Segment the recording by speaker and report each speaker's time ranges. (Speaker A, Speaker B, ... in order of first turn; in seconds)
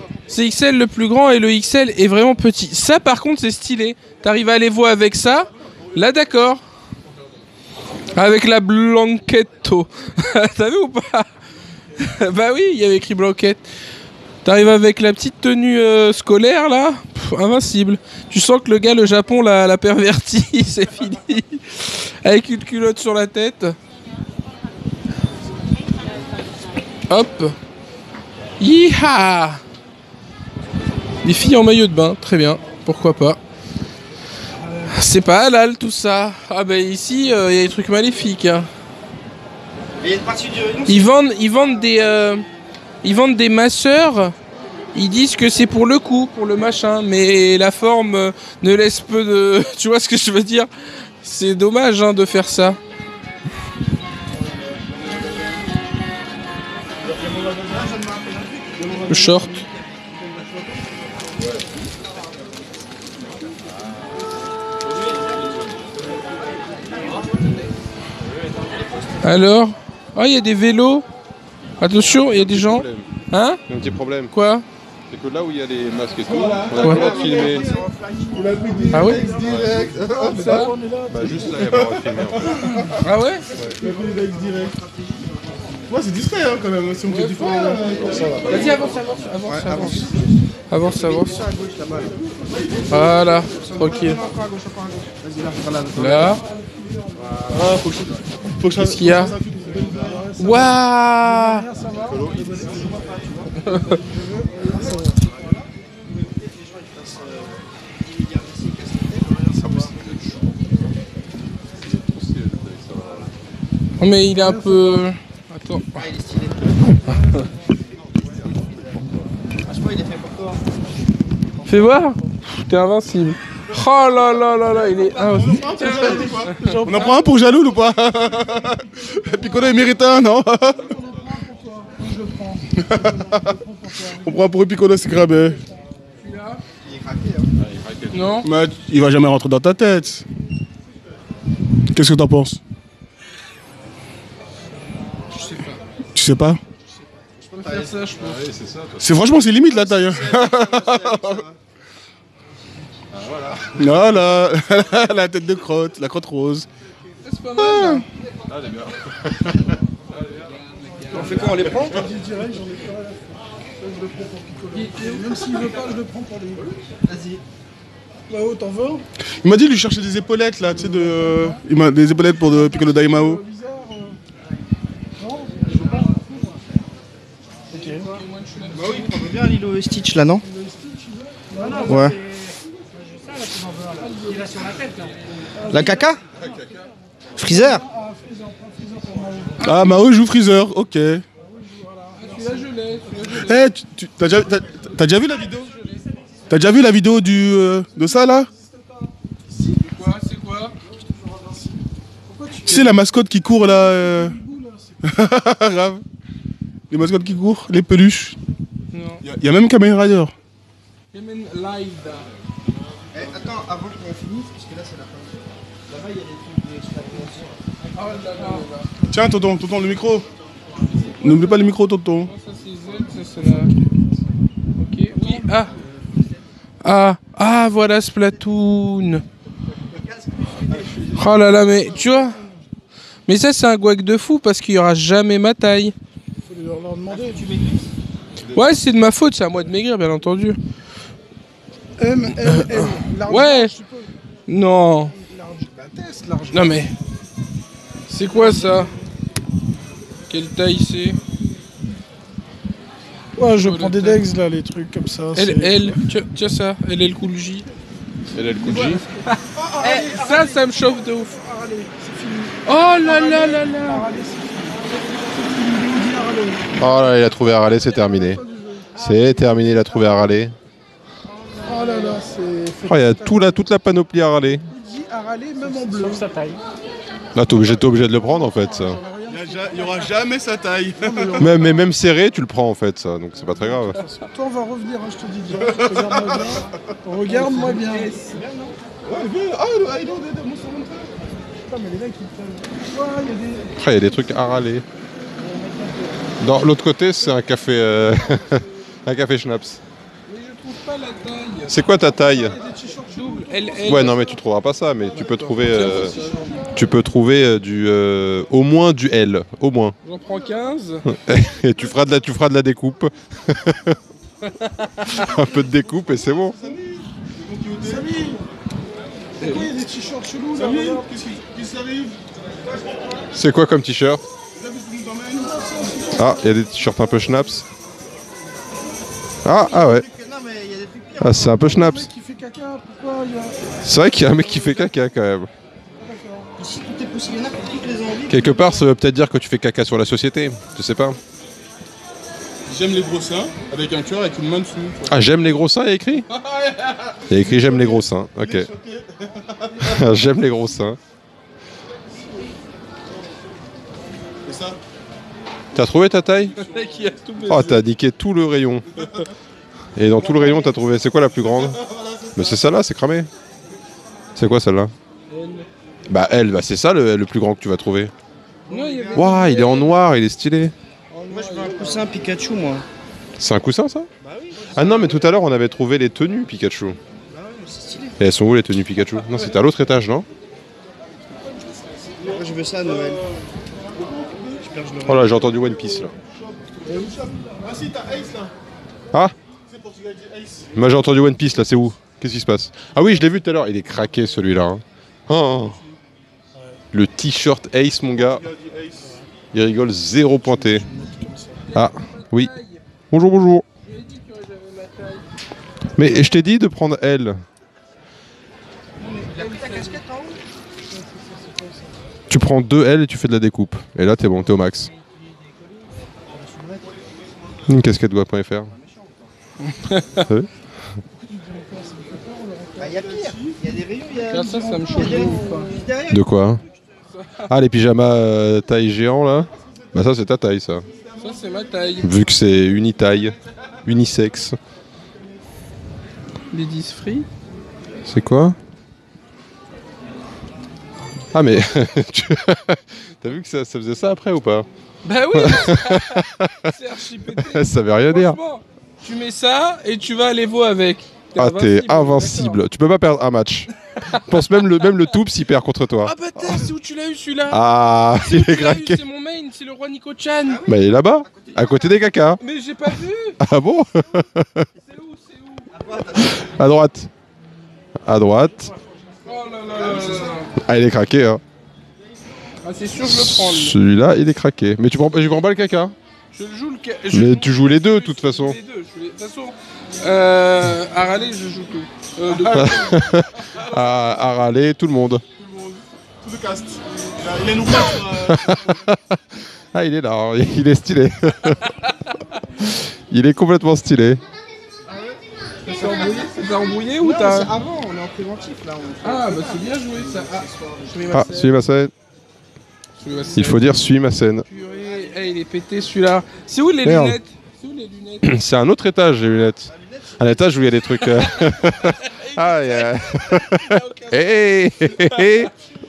Speaker A: 0.3-6.6, 8.2-11.3, 12.0-13.6, 14.4-23.8, 27.1-27.6, 28.6-29.6, 31.2-33.4, 34.9-38.7, 40.9-42.5, 43.0-44.4, 44.9-50.7, 51.2-52.8, 59.1-59.6, 69.2-71.0, 71.8-73.6, 74.3-74.7, 76.8-77.1, 78.9-79.2, 80.4-80.7, 82.6-83.5, 87.1-87.8, 88.5-90.1, 90.7-91.4, 92.9-94.2, 96.0-96.4, 98.8-99.4, 100.4-101.7, 103.7-104.0, 114.0-115.9, 121.7-127.2, 136.2-136.6, 138.1-138.5, 145.3-145.8, 147.6-148.4, 157.2-158.1, 160.4-161.8, 164.7-165.6, 178.0-179.1, 184.0-185.1, 189.6-190.0, 192.2-193.6, 199.8-200.8, 208.9-209.2, 211.1-212.3, 217.9-218.9, 221.0-221.4, 222.3-223.8, 224.8-225.7, 226.8-229.2, 231.2-232.4, 233.3-235.9, 238.5-240.6, 242.4-243.7, 244.5-245.1, 246.5-246.9, 248.1-248.9, 250.3-251.2, 253.5-254.2, 255.4-257.7, 258.6-261.3, 262.6-264.1, 287.3-288.4, 300.3-301.9, 303.1-304.2, 305.2-306.7, 310.0-311.1, 314.6-315.3, 319.4-319.7, 356.6-357.8, 365.3-365.7, 368.7-369.9, 371.1-372.1, 401.7-402.8, 403.8-405.3, 409.1-410.0, 419.9-420.2, 424.3-425.7, 427.1-427.5, 431.2-432.2, 436.5-437.3, 445.0-452.6, 454.0-455.0, 456.0-460.6, 462.4-463.4, 464.8-465.7, 469.3-470.5, 472.6-473.8, 476.3-483.1, 495.7-497.5, 499.0-501.6, 503.0-503.8, 504.5-508.4, 511.0-515.5
Speaker B: 40.0-41.1, 57.2-61.0, 66.9-67.5, 68.5-69.2, 76.9-77.9, 83.5-85.9, 88.2-88.8, 89.5-90.3, 90.9-92.3, 93.5-96.4, 102.4-103.7, 104.6-109.9, 116.0-118.9, 119.6-120.7, 136.8-137.5, 149.7-151.6, 161.1-162.0, 167.0-167.4, 178.7-180.4, 181.9-182.2, 185.7-186.2, 187.4-187.8, 213.1-217.6, 225.7-226.1, 229.9-231.5, 237.1-237.9, 288.3-288.8, 329.7-331.6, 336.6-338.8, 368.7-369.8, 371.3-372.9, 374.2-375.1, 377.3-378.2, 382.2-383.3, 384.6-385.2, 409.1-410.4, 416.2-417.6, 418.7-419.2, 422.8-426.2, 460.4-462.3, 465.7-466.7, 469.6-470.5, 494.9-501.2, 504.6-505.1, 509.6-511.2
Speaker C: 71.8-73.1, 73.7-74.3, 75.1-77.7, 79.4-80.5, 81.1-82.6, 87.9-88.6, 97.2-97.7, 102.1-102.9, 109.7-110.4, 111.8-113.3, 137.6-138.4, 147.6-149.2, 153.1-154.2, 158.5-159.7, 258.3-259.0, 266.8-268.4, 269.0-270.6, 272.9-274.7, 277.4-279.0, 281.4-284.0, 293.8-294.9, 296.4-299.8, 301.7-302.6, 303.9-306.1, 306.7-309.9, 311.1-314.0, 315.0-316.6, 323.3-324.2, 326.1-327.7, 329.4-330.1, 331.2-332.1, 333.8-335.5, 338.3-341.2, 345.1-346.3, 347.3-348.7, 349.8-351.0, 355.7-356.5, 357.5-358.9, 359.9-361.8, 362.4-363.3, 364.4-364.9, 366.1-368.1, 369.1-370.7, 373.4-374.1, 374.7-377.0, 378.2-380.3, 385.0-386.1, 390.7-395.8, 396.9-398.4, 399.5-400.9, 401.8-402.5, 403.1-403.7, 406.0-407.4, 412.3-414.9, 417.7-418.7, 420.2-420.5, 426.1-426.6, 427.5-430.9, 432.0-434.6, 438.1-438.6, 441.3-444.7, 445.3-446.7, 447.3-448.4, 451.4-456.7, 457.5-459.0, 460.6-462.4, 463.4-464.7, 466.2-467.1, 468.0-468.7, 470.6-471.4, 473.1-476.0, 477.1-478.6, 482.3-485.2, 488.3-491.7, 492.6-494.2, 501.1-501.9, 503.3-504.5, 506.8-507.2, 508.2-515.5
Speaker D: 76.3-77.7, 78.3-80.4, 81.6-82.9, 83.8-84.7, 85.9-88.7, 97.5-100.2, 125.2-130.9, 132.8-133.6, 134.2-135.6, 138.4-140.2, 141.9-142.6, 146.2-146.6, 149.0-151.4, 153.8-156.7, 157.6-158.0, 169.4-173.4, 189.6-191.2, 193.4-195.7, 196.5-198.5, 202.7-204.4, 205.0-206.0, 206.9-208.4, 209.2-210.3, 219.1-220.3, 221.2-222.3, 279.3-281.5, 285.6-286.6, 289.0-291.1, 315.6-318.1, 320.6-322.2, 324.6-325.7, 342.7-345.2, 346.3-350.1, 354.4-354.8, 361.7-362.4, 382.9-383.4, 383.9-388.5, 389.7-390.8, 398.1-399.2, 400.7-401.5, 423.2-423.5, 485.4-488.8
Speaker E: 76.8-81.7, 99.7-102.8, 104.1-105.2, 114.3-115.0, 125.8-127.4, 129.3-129.8, 130.7-134.4, 161.8-166.7, 168.3-169.0, 170.8-171.6, 172.5-174.2, 175.2-176.6, 177.7-178.1, 180.4-182.2, 185.6-186.0, 187.4-189.9, 191.4-192.7, 197.9-199.9, 200.8-203.0, 203.6-205.0, 231.9-232.6, 236.4-237.5, 242.0-244.1, 245.1-246.9, 248.3-248.9, 253.4-256.0, 259.5-266.9, 268.0-269.6, 271.6-273.6, 274.7-276.3, 277.6-280.1, 281.0-281.9, 283.4-288.1, 291.7-293.9, 295.4-296.0, 301.9-304.3, 305.1-306.9, 317.8-318.4, 319.4-321.0, 325.4-326.4, 331.5-333.8, 336.0-336.5, 386.9-387.5, 400.9-401.3, 410.9-411.8, 421.2-423.0, 424.4-425.7
Speaker F: 181.5-185.2, 275.9-276.6